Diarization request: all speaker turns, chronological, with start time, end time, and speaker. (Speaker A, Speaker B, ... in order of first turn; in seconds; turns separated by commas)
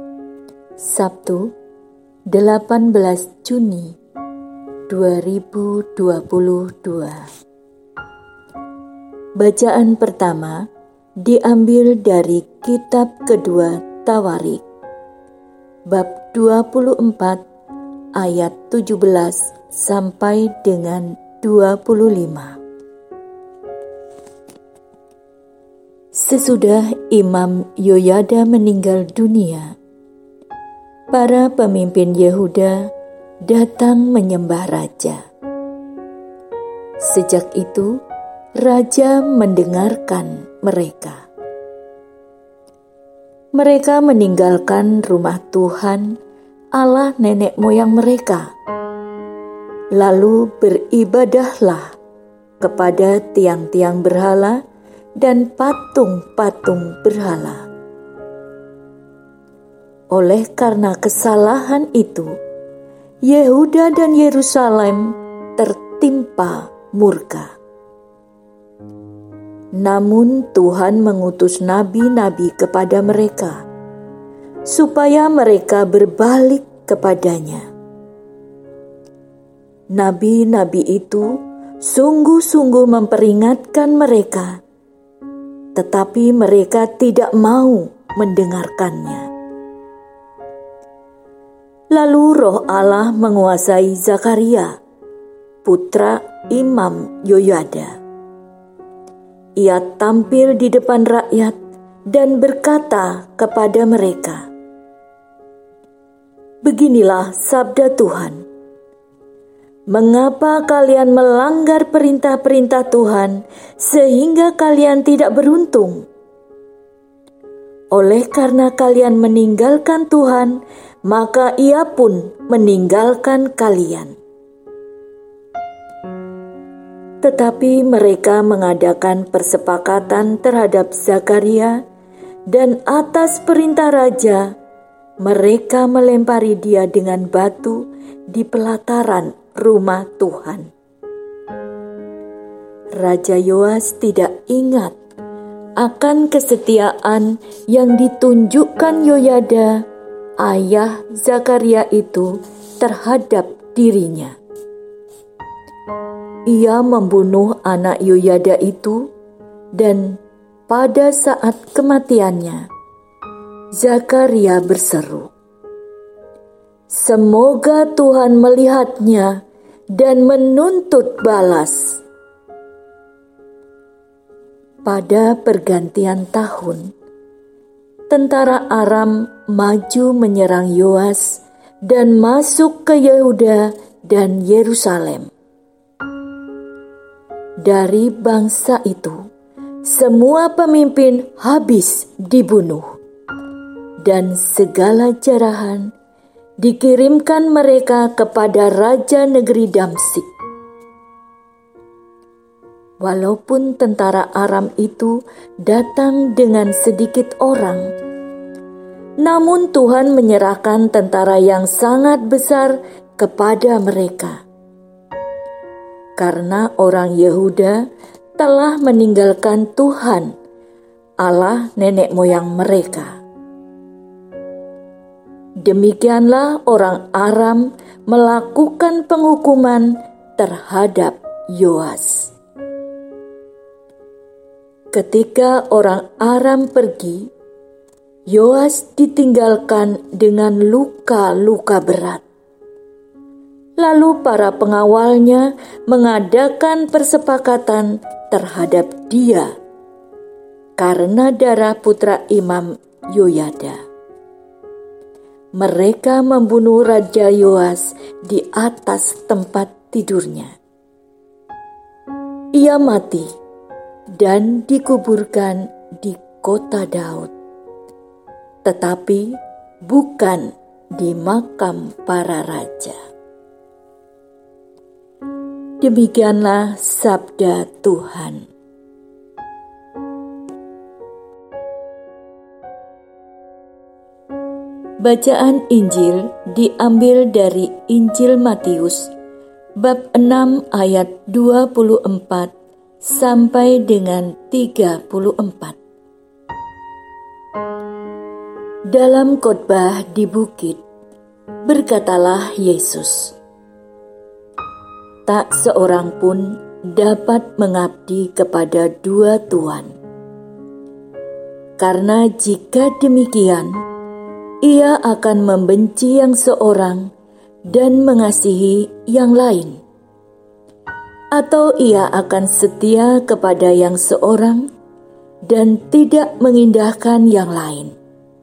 Speaker A: 0.8-1.5, Speaker A: 2.3-3.9, Speaker A: 4.9-7.2, Speaker A: 9.4-10.7, Speaker A: 11.2-14.6, Speaker A: 15.9-17.4, Speaker A: 18.1-22.6, Speaker A: 26.1-29.7, Speaker A: 31.1-32.9, Speaker A: 33.4-35.2, Speaker A: 37.0-38.0, Speaker A: 38.6-41.2, Speaker A: 43.5-46.2, Speaker A: 46.8-48.5, Speaker A: 49.9-51.9, Speaker A: 52.6-54.6, Speaker A: 55.2-57.6, Speaker A: 60.1-62.3, Speaker A: 63.2-67.5, Speaker A: 69.8-73.6, Speaker A: 74.7-77.7, Speaker A: 79.9-84.6, Speaker A: 85.7-89.3, Speaker A: 91.9-94.7, Speaker A: 95.6-97.9, Speaker A: 99.6-101.5, Speaker A: 102.1-104.4, Speaker A: 106.6-108.4, Speaker A: 109.9-116.0, Speaker A: 117.9-124.1, Speaker A: 127.2-131.8, Speaker A: 132.5-134.5, Speaker A: 135.2-140.7, Speaker A: 142.9-144.9, Speaker A: 145.8-149.8, Speaker A: 150.4-154.3, Speaker A: 156.5-159.1, Speaker A: 159.7-162.7, Speaker A: 163.8-165.3, Speaker A: 166.9-169.4, Speaker A: 169.9-172.0, Speaker A: 174.8-176.9, Speaker A: 178.1-185.3, Speaker A: 187.6-189.2, Speaker A: 189.8-192.9, Speaker A: 194.0-195.9, Speaker A: 196.6-200.3, Speaker A: 203.0-207.9, Speaker A: 209.2-214.4, Speaker A: 216.2-217.8, Speaker A: 218.4-220.3, Speaker A: 221.2-223.1, Speaker A: 225.6-232.3, Speaker A: 234.9-237.3, Speaker A: 238.3-242.2, Speaker A: 243.8-249.5, Speaker A: 250.8-253.8, Speaker A: 255.6-260.5, Speaker A: 262.6-263.3, Speaker A: 264.1-267.3, Speaker A: 268.6-273.0, Speaker A: 275.8-278.4, Speaker A: 285.0-289.1, Speaker A: 289.8-292.5, Speaker A: 293.0-295.8, Speaker A: 298.9-300.8, Speaker A: 301.6-303.4, Speaker A: 305.2-309.9, Speaker A: 311.8-313.8, Speaker A: 314.6-317.1, Speaker A: 317.7-319.7, Speaker A: 321.3-324.7, Speaker A: 325.4-327.9